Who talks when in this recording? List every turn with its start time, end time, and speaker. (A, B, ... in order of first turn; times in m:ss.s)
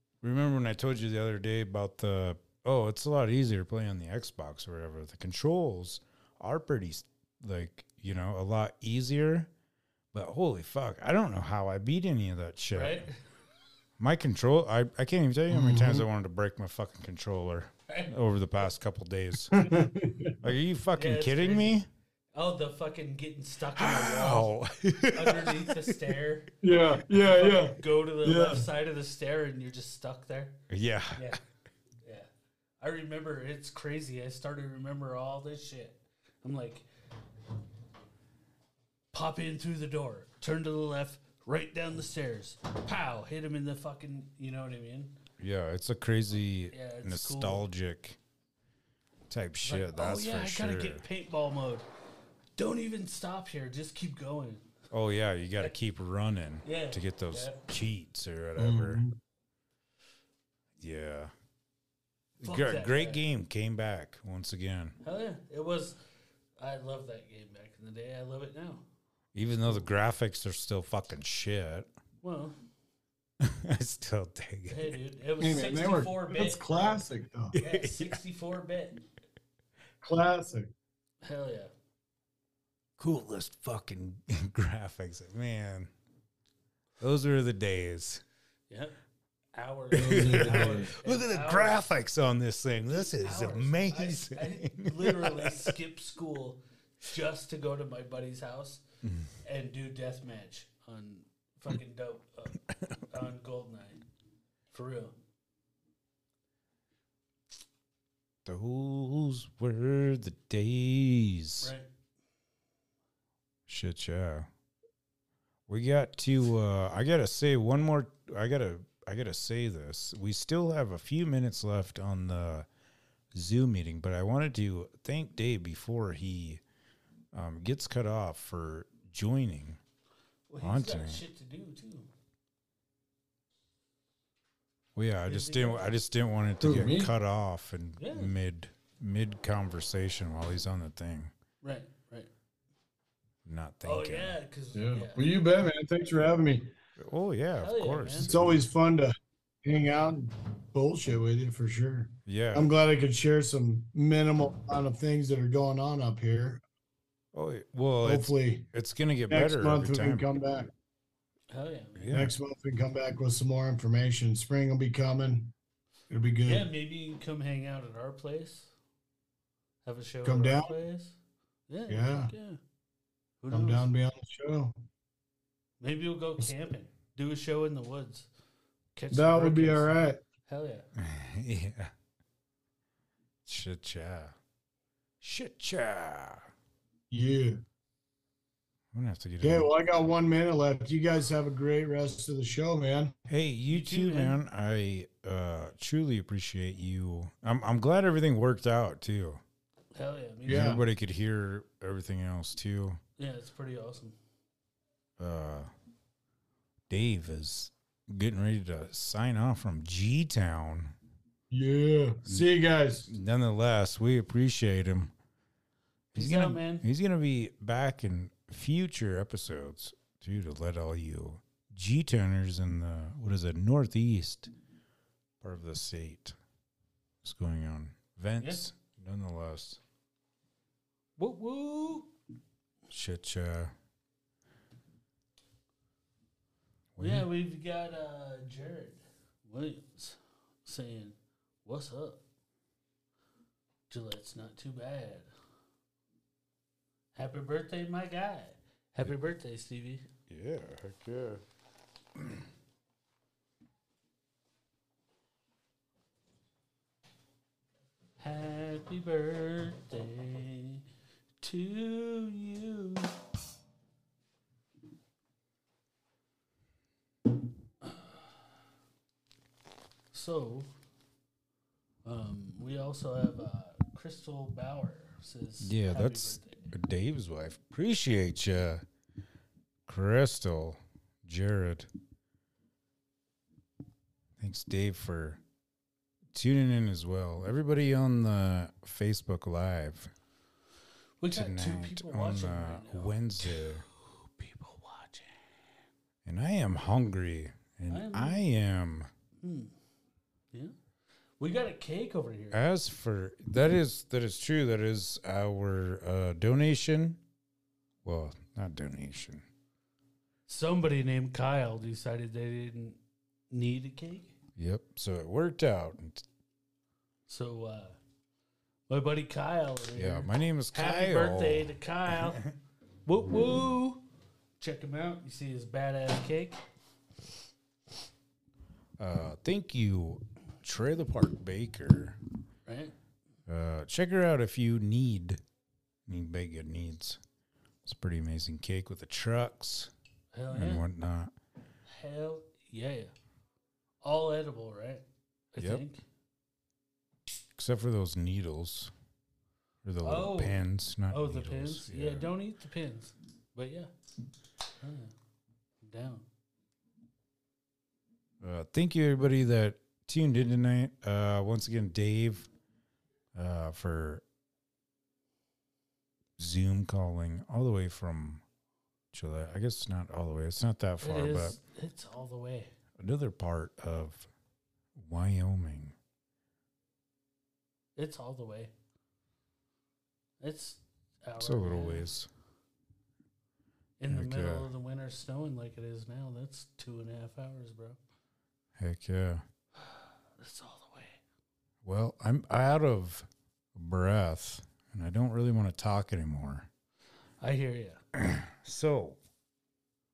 0:00.2-0:09.5 A
0:10.1-0:13.1 A
0:12.7-0:13.2 B
0:14.0-0:19.6 A
0:15.5-0:16.1 C
0:19.5-0:20.4 C
0:20.4-0:21.9 A
0:21.0-0:21.8 B
0:22.4-0:24.5 B
0:23.8-0:26.1 A
0:25.1-0:26.6 B
0:26.6-0:28.7 C
0:27.2-0:30.6 B
0:30.7-0:31.4 A
0:31.2-0:31.4 B
0:32.0-0:32.3 B
0:32.8-0:36.9 B
0:39.1-0:45.2 B
0:45.4-0:48.2 A
0:46.7-0:47.6 B
0:49.3-0:51.0 A
0:49.6-0:51.9 B
0:52.6-0:54.7 B
0:54.9-0:59.0 A
0:56.6-0:57.6 B
0:58.6-0:59.2 C
1:00.8-1:01.3 A
1:02.4-1:05.0 A
1:02.4-1:03.2 B
1:05.0-1:06.0 B
1:06.6-1:08.8 B
1:09.4-1:11.9 A
1:12.2-1:12.6 B
1:13.4-1:15.0 A
1:14.7-1:19.0 B
1:15.4-1:17.6 C
1:17.5-1:18.2 A
1:20.0-1:20.7 C
1:21.2-1:21.7 B
1:23.0-1:25.9 A
1:27.0-1:28.2 A
1:28.7-1:29.0 B
1:29.6-1:31.8 B
1:29.9-1:35.7 A
1:30.0-1:30.9 C
1:32.9-1:38.8 B
1:39.0-1:39.3 A
1:39.4-1:44.0 B
1:44.7-1:45.2 B
1:48.4-1:51.7 A
1:51.6-1:51.9 B
1:53.7-1:54.5 A
1:55.7-2:02.7 A
2:03.3-2:06.6 A
2:07.3-2:09.8 A
2:10.5-2:12.1 B
2:10.6-2:11.2 A
2:15.0-2:21.3 A
2:15.3-2:15.9 B
2:16.6-2:17.1 C
2:18.0-2:18.3 B
2:21.6-2:22.3 B
2:23.4-2:24.4 A
2:23.8-2:25.3 B
2:24.8-2:26.7 C
2:27.0-2:28.7 A
2:27.6-2:28.3 B
2:28.2-2:36.6 C
2:32.3-2:32.7 A
2:37.3-2:40.3 A
2:38.0-2:38.7 C
2:39.3-2:40.7 C
2:41.5-2:42.2 B
2:42.0-2:42.4 A
2:42.1-2:45.5 C
2:46.1-2:46.7 C
2:46.5-2:48.7 B
2:49.8-2:52.6 B
2:50.2-2:50.7 C
2:51.9-2:52.3 C
2:53.4-2:53.9 B
2:53.5-2:54.8 C
2:55.8-2:58.3 B
2:59.0-3:00.0 B
2:59.1-3:00.2 C
3:00.5-3:00.9 B
3:01.0-3:01.9 A
3:03.4-3:04.4 A
3:05.2-3:06.4 A
3:07.1-3:07.6 C
3:08.9-3:09.7 A
3:09.4-3:13.1 C
3:13.3-3:19.4 A
3:13.7-3:14.4 B
3:19.9-3:20.8 B
3:20.5-3:20.8 C
3:20.5-3:23.0 A
3:23.2-3:24.2 B
3:25.2-3:25.7 A
3:26.9-3:31.0 A
3:31.5-3:33.1 C
3:33.1-3:35.1 A
3:36.1-3:36.9 B
3:36.2-3:44.5 A
3:45.4-3:46.4 A
3:47.2-3:49.8 A
3:51.2-3:52.1 B
3:52.9-3:53.7 A
3:57.0-3:57.3 A
3:57.0-4:02.2 B
4:03.9-4:05.3 B
4:07.2-4:10.0 B
4:10.3-4:11.4 A
4:12.2-4:12.4 A
4:18.2-4:20.8 B
4:21.4-4:23.2 B
4:27.8-4:28.2 B
4:30.1-4:30.7 B
4:32.0-4:36.7 B
4:35.6-4:38.8 A
4:39.9-4:41.9 A
4:44.4-4:45.4 A
4:46.3-4:50.1 A
4:51.2-4:55.4 B
4:51.3-4:53.8 A
4:56.2-4:59.1 A
4:57.9-4:58.4 B
4:59.4-4:59.8 B
5:01.4-5:02.6 B
5:02.5-5:07.2 A
5:08.0-5:09.5 A
5:10.5-5:13.0 B
5:13.5-5:14.4 B
5:14.6-5:16.2 A
5:17.3-5:18.0 B
5:18.9-5:22.4 B
5:20.0-5:22.6 A
5:23.1-5:24.0 B
5:24.6-5:26.6 B
5:29.0-5:32.2 A
5:32.7-5:32.9 B
5:33.5-5:35.4 A
5:36.1-5:37.2 A
5:37.8-5:39.9 A
5:40.3-5:40.8 B
5:40.5-5:41.3 A
5:41.9-5:43.1 B
5:44.0-5:46.0 B
5:47.6-5:48.9 A
5:49.8-5:52.3 A
5:50.0-5:53.9 B
5:54.8-5:55.1 B
5:55.8-5:56.2 B
5:58.4-6:02.5 A
6:03.4-6:04.2 A
6:06.4-6:08.4 A
6:09.1-6:11.6 A
6:11.0-6:12.7 B
6:13.0-6:14.3 A
6:15.0-6:16.0 A
6:18.0-6:18.7 B
6:20.4-6:22.1 B
6:21.4-6:22.3 A
6:24.0-6:28.0 B
6:24.1-6:24.7 A
6:28.8-6:29.4 A
6:29.8-6:31.2 B
6:31.8-6:36.7 A
6:37.4-6:38.0 B
6:38.2-6:39.2 A